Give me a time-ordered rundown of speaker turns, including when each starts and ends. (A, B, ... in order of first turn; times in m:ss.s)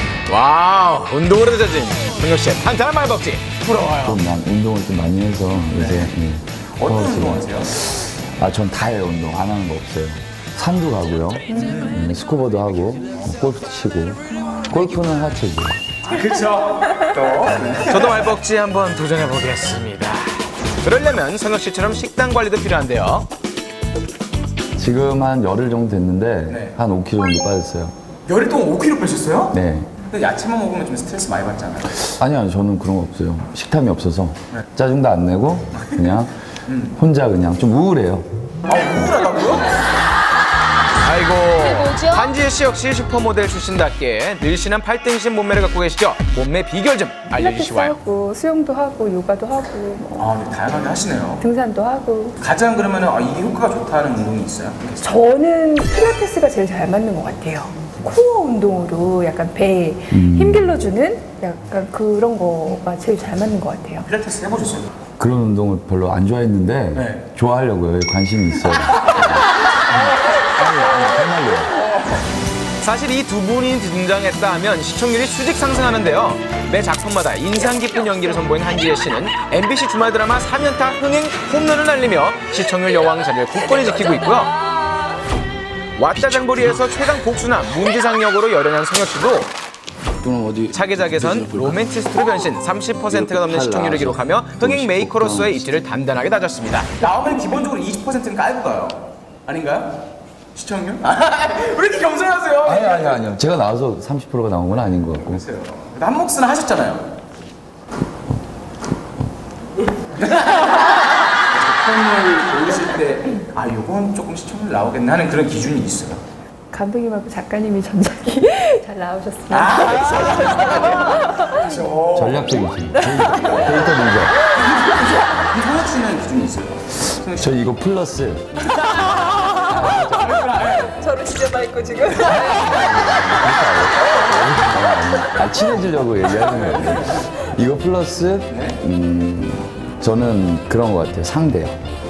0:00.3-0:04.2 A
0:03.9-0:15.8 B
0:05.7-0:06.2 C
0:06.8-0:07.8 C
0:11.5-0:12.0 C
0:11.5-0:11.9 D
0:16.1-0:18.4 C
0:17.8-0:23.3 A
0:24.8-0:27.9 B
0:26.5-0:26.8 C
0:28.3-0:32.1 C
0:29.5-0:29.9 B
0:32.0-0:38.3 B
0:35.8-0:36.1 C
0:36.7-0:37.0 C
0:38.6-0:39.7 C
0:41.0-0:48.0 A
0:47.3-0:50.3 D
0:50.2-0:51.4 C
0:51.4-0:52.4 D
0:52.4-0:55.2 C
0:55.0-1:04.1 D
1:00.1-1:00.8 B
1:04.0-1:04.9 C
1:05.2-1:11.8 B
1:07.0-1:07.2 C
1:08.8-1:09.4 C
1:10.4-1:11.2 C
1:11.8-1:12.2 C
1:12.8-1:24.6 A
1:26.0-1:29.5 A
1:30.2-1:31.8 B
1:30.7-1:36.9 A
1:33.1-1:35.7 B
1:37.0-1:40.0 C
1:40.5-1:43.2 C
1:42.6-1:45.4 B
1:45.2-1:47.1 C
1:50.2-1:56.2 C
1:56.7-2:01.8 D
1:59.5-2:02.6 C
2:02.2-2:04.4 B
2:03.0-2:03.7 D
2:03.3-2:03.8 C
2:04.5-2:07.6 C
2:07.3-2:08.5 B
2:09.7-2:11.0 C
2:11.0-2:13.1 D
2:12.4-2:21.8 B
2:18.5-2:18.8 C